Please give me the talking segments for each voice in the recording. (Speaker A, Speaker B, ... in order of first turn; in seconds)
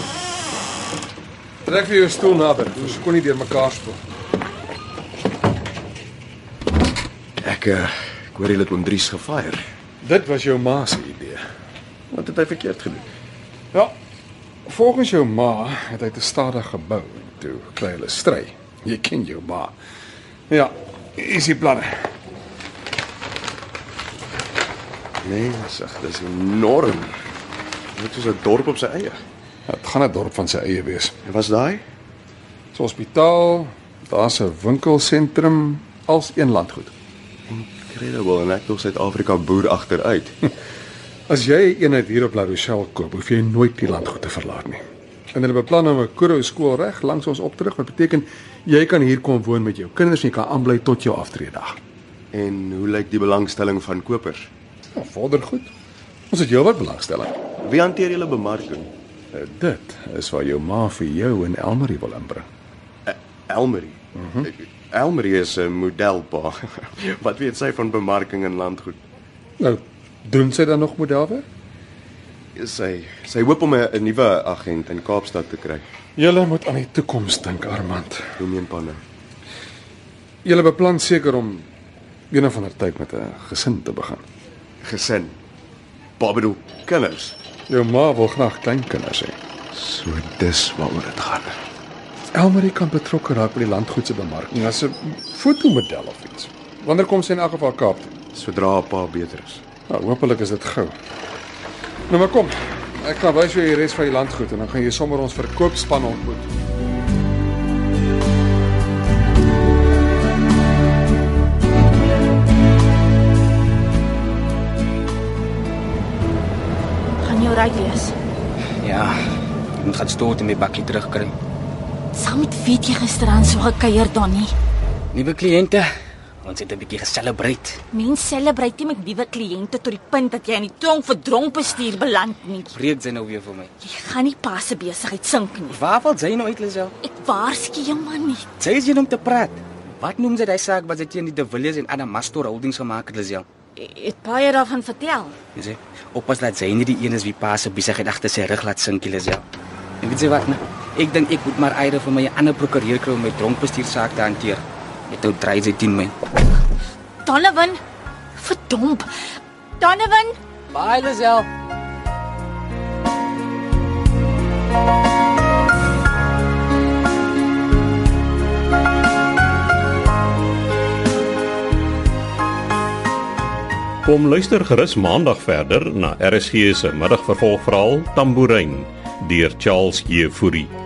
Speaker A: 1.7-4.0, 10.0-11.4, 14.7-19.7, 20.5-21.9, 29.7-31.1, 32.7-36.9, 41.3-44.8, 45.3-51.8, 55.0-55.7, 56.3-57.4, 59.3-62.5, 64.2-64.5, 69.6-71.5, 76.2-78.3, 80.4-81.7, 82.3-84.2, 87.7-89.4, 92.3-98.1, 99.8-101.0, 102.1-106.5
Speaker B: 7.4-9.6, 12.1-13.1, 25.2-27.1, 27.9-29.2, 31.2-31.8, 37.5-40.4, 52.3-54.5, 57.6-58.9, 63.1-69.0, 72.6-75.8, 78.4-79.0, 84.8-85.4, 86.2-87.4, 89.7-91.6, 98.3-99.6
Speaker C: 117.2-118.2, 122.1-124.5, 127.9-132.8, 133.8-135.8, 137.0-138.5, 143.8-145.4, 157.2-157.8, 158.4-159.2, 159.8-160.4
Speaker D: 118.8-119.2, 119.8-121.3, 125.1-125.9, 126.4-127.8, 132.7-133.7, 135.7-136.9, 138.6-143.5, 145.6-149.4, 150.0-156.1, 160.7-161.5
Speaker E: 174.1-180.7